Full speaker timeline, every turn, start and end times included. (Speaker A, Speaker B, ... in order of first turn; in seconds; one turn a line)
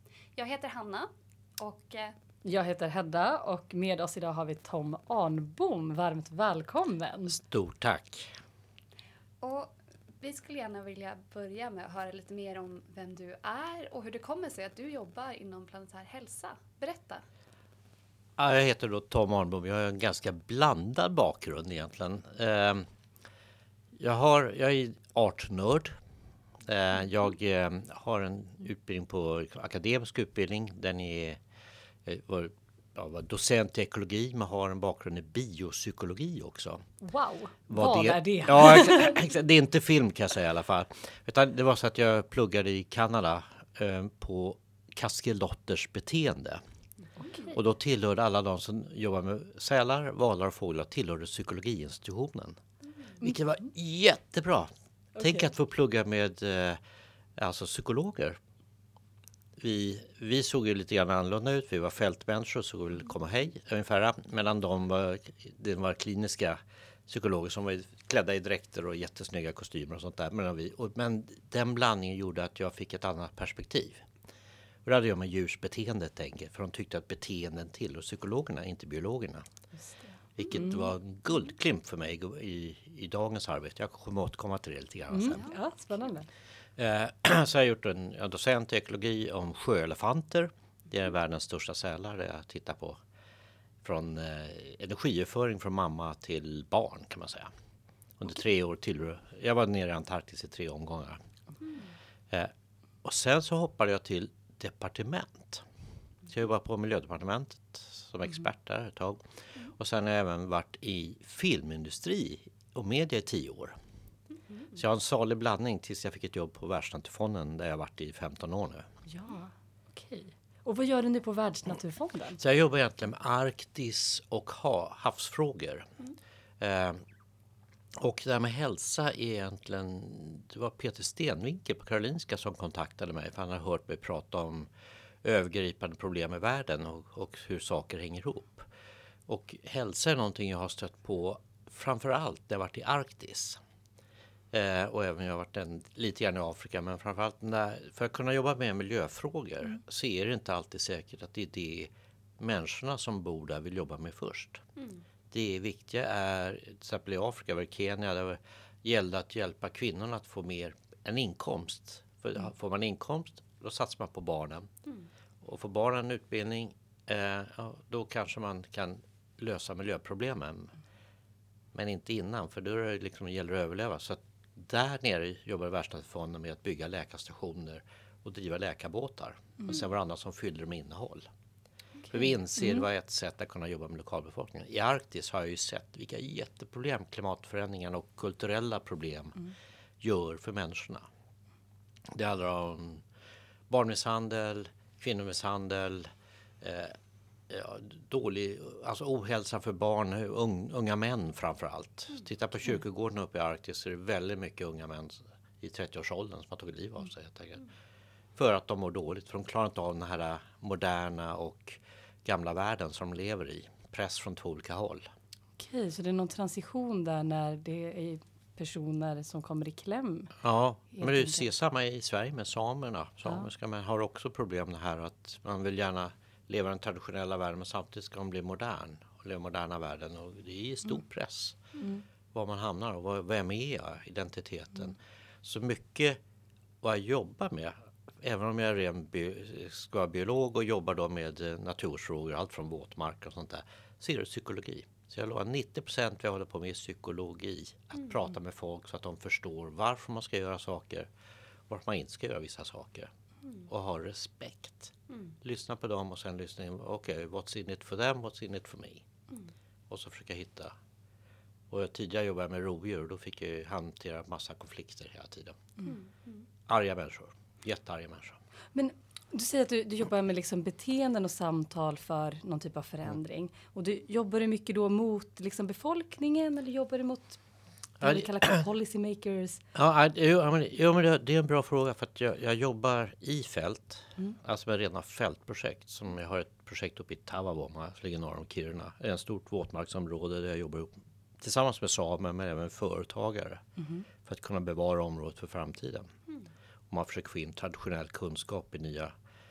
Speaker A: 0.3-2.1
Speaker B: 2.4-7.4
Speaker C: 7.3-8.3
Speaker A: 9.4-17.2
Speaker C: 18.4-22.8
Speaker C: 24.0-26.0
Speaker C: 26.7-31.4
Speaker C: 32.0-36.8
Speaker B: 37.0-39.2
Speaker C: 37.7-46.6
Speaker B: 47.2-47.6
Speaker C: 47.5-52.6
Speaker C: 53.2-56.8
Speaker C: 57.4-58.4
Speaker C: 59.6-74.0
Speaker C: 74.8-79.4
Speaker C: 80.4-85.4
Speaker B: 80.6-80.9
Speaker B: 85.1-86.3
Speaker A: 85.4-85.7
Speaker C: 86.8-93.0
Speaker C: 93.8-97.5
Speaker C: 98.2-101.2
Speaker C: 103.0-105.6
Speaker C: 106.2-113.8
Speaker C: 114.7-118.9
Speaker B: 119.0-122.4
Speaker C: 122.4-125.9
Speaker C: 126.6-127.0
Speaker C: 128.0-134.7
Speaker C: 135.2-138.7
Speaker C: 139.3-143.6
Speaker C: 144.5-154.6
Speaker A: 154.8-155.0
Speaker C: 155.3-164.7
Speaker C: 165.4-170.7
Speaker C: 171.7-181.3
Speaker C: 182.1-189.5
Speaker C: 190.0-191.1
Speaker C: 192.1-193.0
Speaker C: 193.7-196.1
Speaker C: 196.6-197.0
Speaker C: 197.5-207.7
Speaker C: 208.3-215.1
Speaker B: 215.6-220.4
Speaker C: 220.4-231.6
Speaker B: 220.9-221.5
Speaker C: 232.3-236.2
Speaker C: 236.8-251.1
Speaker C: 251.7-253.1
Speaker C: 253.7-259.1
Speaker C: 259.9-260.7
Speaker C: 261.7-265.6
Speaker A: 265.8-266.5
Speaker C: 266.7-268.4
Speaker B: 268.7-277.4
Speaker B: 278.0-279.6
Speaker C: 279.7-293.6
Speaker B: 293.8-294.0
Speaker C: 294.2-296.1
Speaker C: 296.9-299.1